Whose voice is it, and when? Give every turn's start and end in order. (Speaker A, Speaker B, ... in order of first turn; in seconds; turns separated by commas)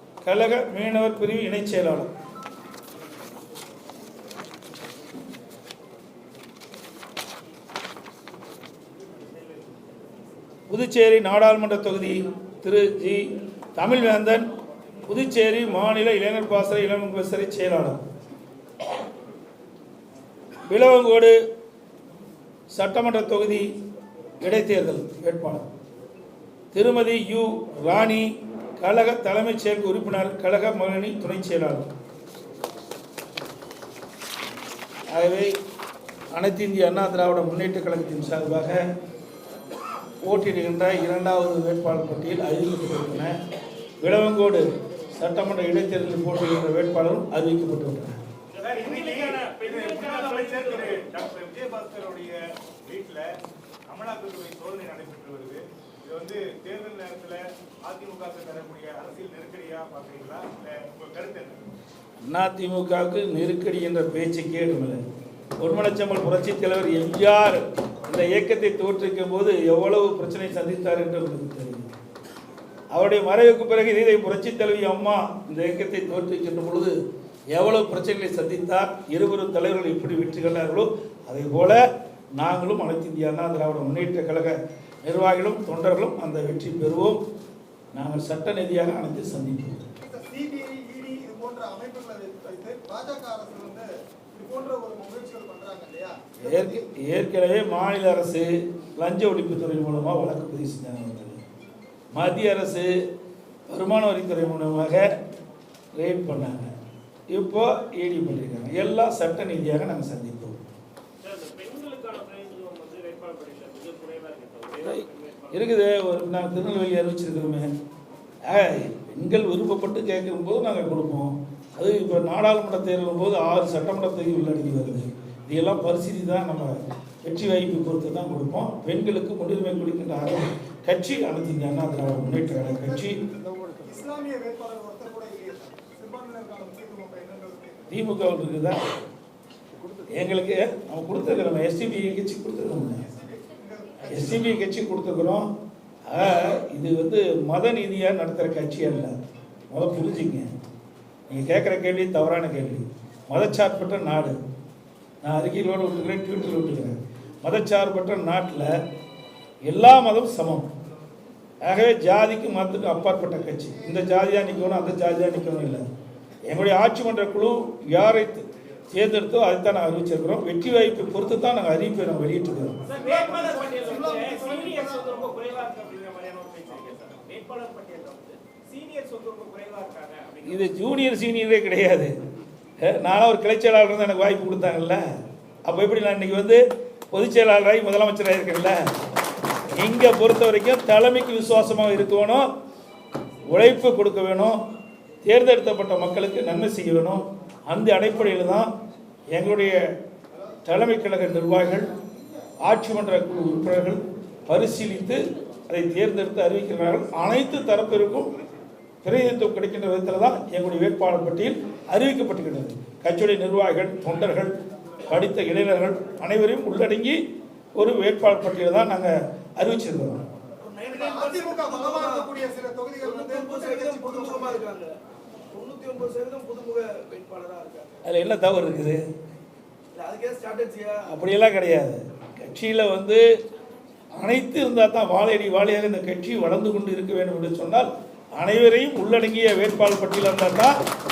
Speaker A: 0.2-2.1, Speaker A: 10.7-14.5, Speaker A: 15.1-18.0, Speaker A: 20.7-21.4, Speaker A: 22.7-23.7, Speaker A: 24.4-25.6, Speaker A: 26.7-31.9, Speaker A: 35.1-35.5, Speaker A: 36.3-38.8, Speaker A: 40.2-43.4, Speaker A: 44.0-48.2, Speaker B: 48.5-51.1, Speaker C: 48.6-53.2, Speaker C: 53.9-61.6, Speaker A: 62.2-65.0, Speaker A: 65.6-71.9, Speaker A: 72.9-76.9, Speaker A: 77.5-81.8, Speaker A: 82.4-87.2, Speaker A: 87.9-89.8, Speaker D: 90.0-96.8, Speaker A: 96.4-101.4, Speaker A: 102.1-102.9, Speaker A: 103.7-105.1, Speaker A: 106.0-106.7, Speaker A: 107.3-110.6, Speaker B: 111.2-115.7, Speaker A: 114.8-117.7, Speaker A: 118.4-133.2, Speaker D: 133.7-137.8, Speaker A: 137.9-138.8, Speaker A: 140.1-143.0, Speaker D: 142.9-144.4, Speaker A: 144.1-145.5, Speaker A: 146.1-149.1, Speaker A: 149.7-150.5, Speaker A: 151.3-154.4, Speaker A: 155.2-158.7, Speaker A: 159.7-160.7, Speaker A: 161.6-165.8, Speaker A: 166.5-172.8, Speaker B: 172.8-180.7, Speaker D: 173.0-175.1, Speaker A: 180.4-182.1, Speaker A: 182.8-185.0, Speaker A: 185.6-188.8, Speaker A: 189.8-192.5, Speaker A: 193.5-194.6, Speaker A: 195.2-198.7, Speaker A: 199.3-199.8, Speaker A: 200.7-201.9, Speaker A: 202.6-208.3, Speaker A: 209.0-214.5, Speaker A: 215.1-217.2, Speaker A: 217.8-220.2, Speaker E: 220.6-222.3, Speaker D: 220.9-224.6, Speaker E: 223.0-224.9, Speaker E: 225.5-228.0, Speaker A: 228.0-229.0, Speaker E: 229.9-231.1, Speaker A: 231.1-233.2, Speaker A: 234.1-240.8